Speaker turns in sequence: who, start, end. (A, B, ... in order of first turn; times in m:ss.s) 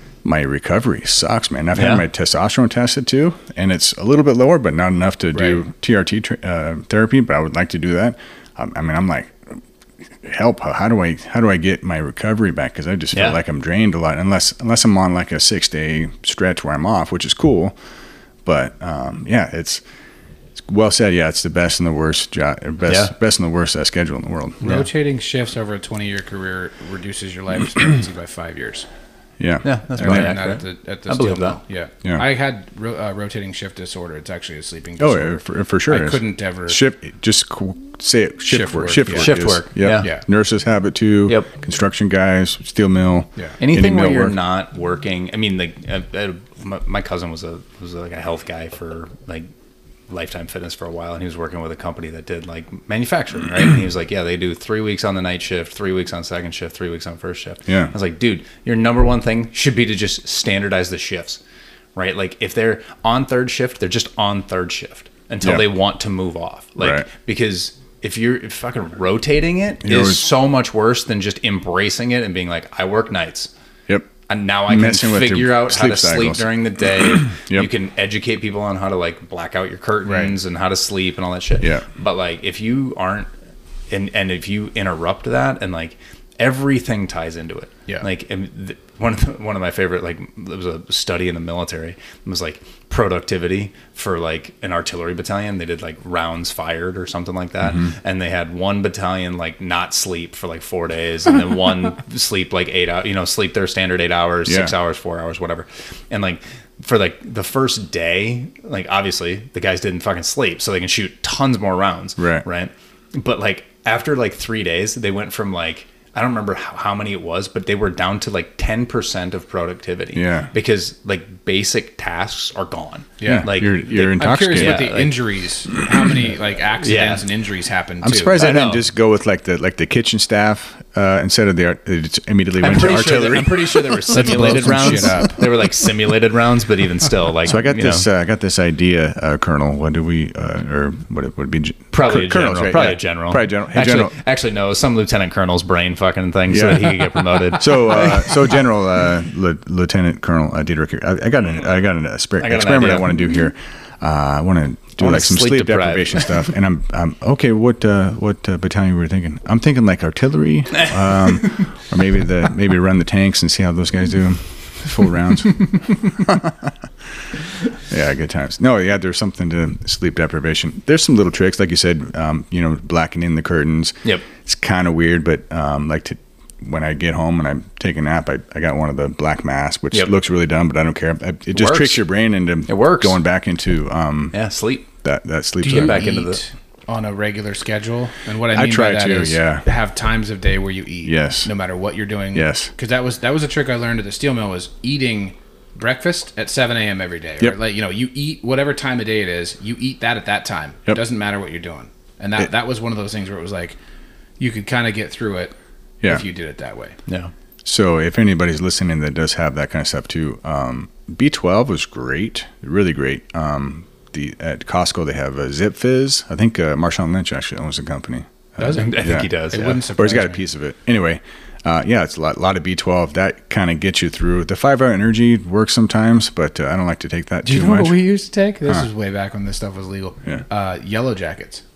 0:00.2-0:09.6 A
0:01.7-0:02.0 B
0:10.1-0:17.8 A
0:13.1-0:13.4 B
0:18.4-0:19.8 A
0:20.6-0:24.8 A
0:22.8-0:23.1 B
0:24.6-0:28.8 C
0:29.4-0:30.4 A
0:29.6-0:31.6 B
0:30.0-0:36.8 C
0:35.0-0:44.4 A
0:38.5-0:39.4 C
0:39.1-0:40.1 B
0:43.6-0:49.5 B
0:50.1-1:01.4 B
0:57.6-0:57.9 A
1:02.0-1:13.5 B
1:05.4-1:05.7 A
1:06.8-1:07.1 A
1:09.8-1:10.3 A
1:14.3-1:23.3 B
1:14.7-1:17.7 A
1:20.0-1:20.3 A
1:21.6-1:21.8 A
1:23.9-2:05.2 B
1:37.6-1:37.9 A
1:44.4-1:44.7 A
1:52.2-1:52.4 A
2:00.1-2:00.5 A
2:03.2-2:08.4 C
2:03.2-2:04.9 A
2:06.8-2:07.2 B
2:08.0-2:15.3 A
2:08.3-2:08.8 B
2:12.6-2:18.0 B
2:14.1-2:15.4 C
2:17.4-2:24.1 A
2:21.9-2:28.6 B
2:26.5-2:46.7 A
2:32.4-2:33.3 B
2:35.0-2:36.4 B
2:47.9-3:04.4 A
3:01.5-3:02.0 B
3:02.7-3:03.2 B
3:04.3-3:04.9 B
3:05.0-3:06.1 A
3:05.6-3:23.8 C
3:05.6-3:06.4 B
3:08.5-3:09.6 A
3:11.0-3:11.5 A
3:12.3-3:12.7 A
3:24.4-3:27.0 C
3:27.1-3:27.3 B
3:27.6-3:48.0 A
3:38.6-3:40.4 C
3:38.7-3:39.8 B
3:47.4-3:51.6 C